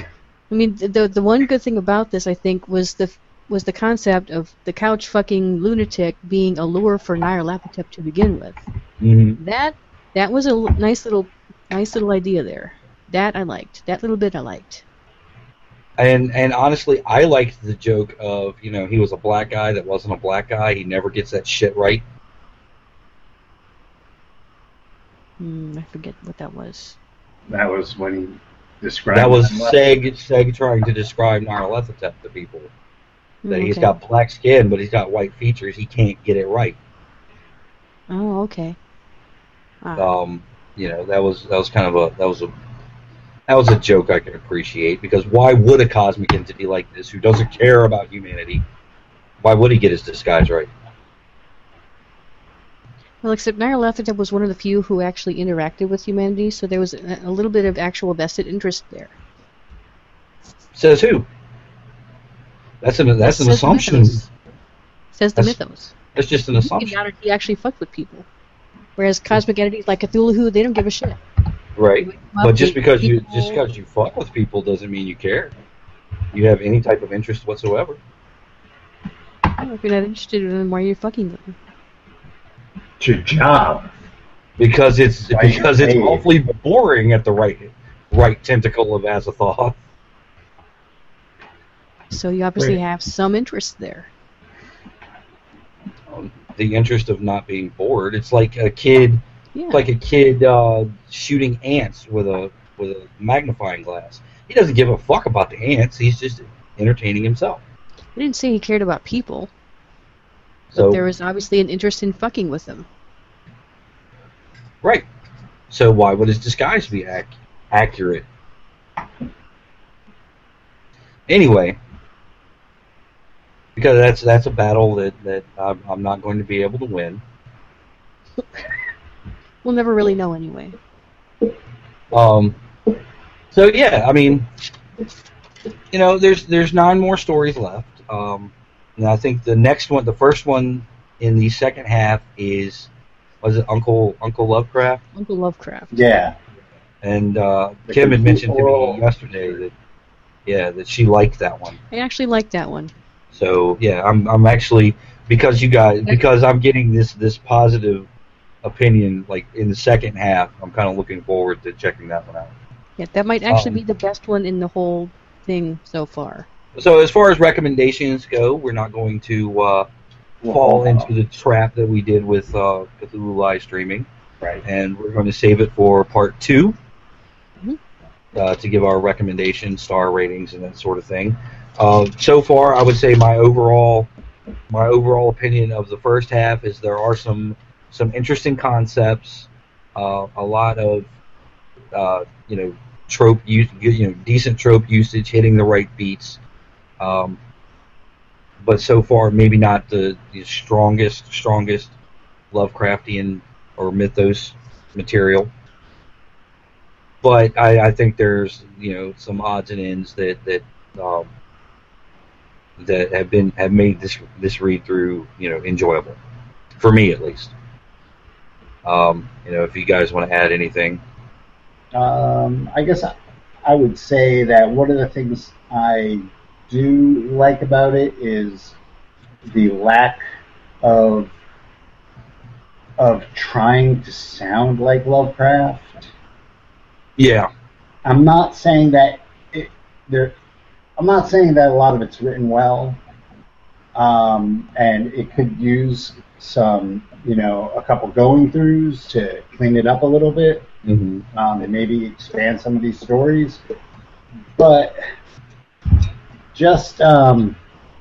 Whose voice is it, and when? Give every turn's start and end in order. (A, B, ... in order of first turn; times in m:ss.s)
0:00.5-0:08.6 A
0:09.0-0:09.4 B
0:09.4-0:14.8 A
0:16.0-0:22.0 B
0:25.4-0:27.0 A
0:27.5-0:30.1 C
0:29.1-0:32.7 B
0:33.4-0:33.9 A
0:33.5-0:36.8 B
0:38.1-0:38.8 A
0:40.0-0:42.5 B
0:43.5-0:48.6 B
0:49.4-0:50.7 B
0:53.2-0:59.1 A
1:00.8-1:01.3 B
1:02.8-1:04.2 B
1:03.2-1:04.3 A
1:05.2-1:05.9 A
1:06.1-1:07.0 B
1:06.6-1:08.3 A
1:09.0-1:11.2 A
1:11.8-1:15.5 B
1:12.0-1:13.6 A
1:16.3-1:18.0 B
1:19.6-1:21.6 A
1:23.0-1:23.9 C
1:24.6-1:29.8 B
1:25.3-1:26.3 C
1:32.1-1:34.1 A
1:36.1-1:47.6 B
1:39.6-1:39.8 A
1:48.2-1:49.5 A
1:50.7-1:51.0 B
1:50.7-1:52.9 A
1:55.7-1:58.3 B
2:01.3-2:01.8 B
2:03.8-2:07.2 B
2:09.6-2:10.8 A
2:12.1-2:12.6 B
2:13.5-2:14.5 B
2:15.9-2:22.9 B
2:23.4-2:25.0 B
2:25.2-2:26.0 A
2:25.9-2:26.4 C
2:27.0-2:29.7 B
2:27.9-2:29.6 C
2:30.5-2:31.8 B
2:31.9-2:32.9 A
2:33.3-2:38.1 B
2:38.6-2:42.5 B
2:43.0-2:46.5 A
2:43.5-2:43.8 B
2:46.8-2:49.9 B
2:50.4-2:51.1 C
2:50.5-2:54.1 B
2:54.6-2:56.8 B
2:58.4-3:04.1 B
3:04.7-3:11.1 B
3:11.9-3:16.4 B
3:17.0-3:17.4 B
3:18.6-3:21.9 B
3:22.5-3:25.5 B
3:27.2-3:31.3 B
3:32.8-3:36.2 B
3:36.8-3:37.5 B
3:38.8-3:41.0 B
3:41.9-3:43.1 C
3:43.6-3:48.8 C
3:49.5-3:50.2 C
3:50.8-3:51.3 C
3:53.0-3:56.1 C
3:57.2-3:57.5 B
3:58.0-4:00.4 C
4:01.0-4:03.0 C
4:04.0-4:10.7 C
4:10.8-4:11.2 B
4:11.3-4:13.6 C
4:14.6-4:15.0 C
4:16.5-4:17.6 C